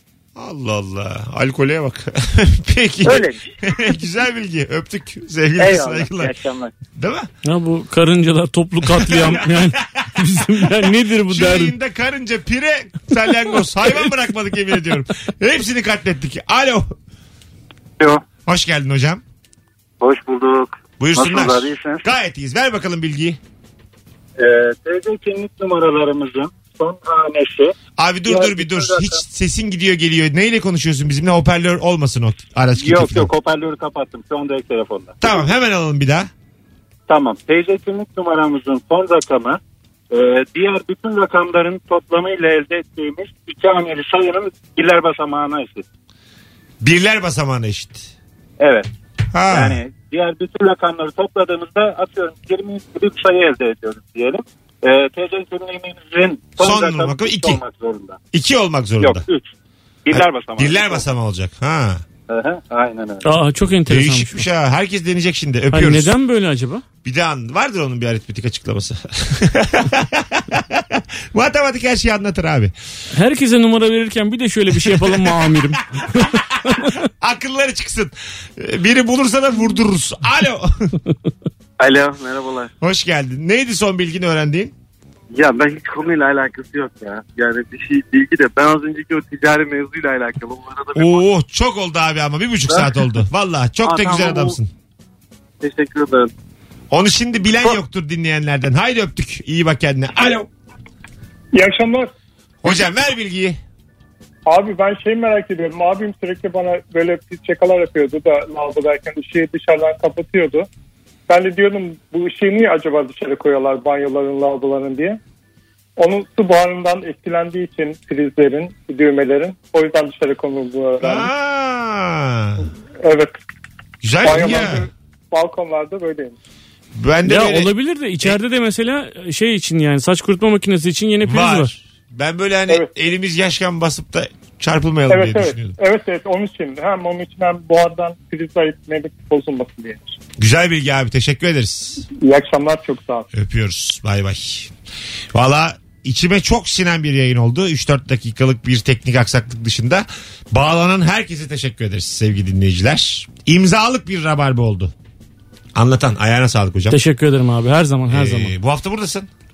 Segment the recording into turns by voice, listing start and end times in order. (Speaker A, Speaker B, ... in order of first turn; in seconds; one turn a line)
Speaker A: 0.3-6.3
Speaker B: 3.0-3.4
Speaker B: 5.6-6.7
Speaker A: 7.0-7.3
Speaker C: 7.4-11.7
Speaker A: 8.8-16.9
Speaker A: 18.4-19.2
Speaker A: 21.0-23.4
Speaker D: 21.1-22.0
Speaker D: 24.4-27.7
Speaker A: 28.0-33.3
Speaker D: 28.2-29.2
Speaker D: 32.8-35.1
Speaker A: 35.2-36.3
Speaker D: 37.1-39.6
Speaker D: 40.1-45.8
Speaker A: 46.8-48.1
Speaker D: 48.6-48.9
Speaker A: 49.3-49.8
Speaker D: 49.5-58.2
Speaker A: 56.6-57.6
Speaker A: 58.3-59.2
Speaker D: 59.0-59.5
Speaker D: 60.0-61.0
Speaker A: 60.1-62.0
Speaker D: 62.3-63.3
Speaker C: 63.2-64.4
Speaker A: 63.9-66.1
Speaker C: 65.7-66.8
Speaker A: 67.0-72.7
Speaker C: 73.1-76.9
Speaker A: 74.7-81.0
Speaker B: 81.8-82.7
Speaker A: 82.8-84.7
Speaker B: 85.4-91.0
Speaker A: 90.9-94.7
Speaker B: 95.6-96.2
Speaker A: 96.9-100.5
Speaker E: 101.5-102.1
Speaker A: 102.6-103.6
Speaker E: 104.5-110.7
Speaker E: 111.3-115.2
Speaker E: 116.0-121.2
Speaker A: 121.0-122.7
Speaker E: 123.0-123.3
Speaker A: 124.0-124.9
Speaker D: 124.2-124.7
Speaker E: 124.2-126.3
Speaker A: 126.9-127.7
Speaker C: 127.2-131.7
Speaker A: 131.2-135.7
Speaker E: 135.1-140.0
Speaker A: 140.4-142.0
Speaker E: 142.2-143.2
Speaker A: 143.3-144.7
Speaker A: 145.3-154.9
Speaker A: 155.7-157.0
Speaker C: 156.9-158.5
Speaker A: 158.1-159.3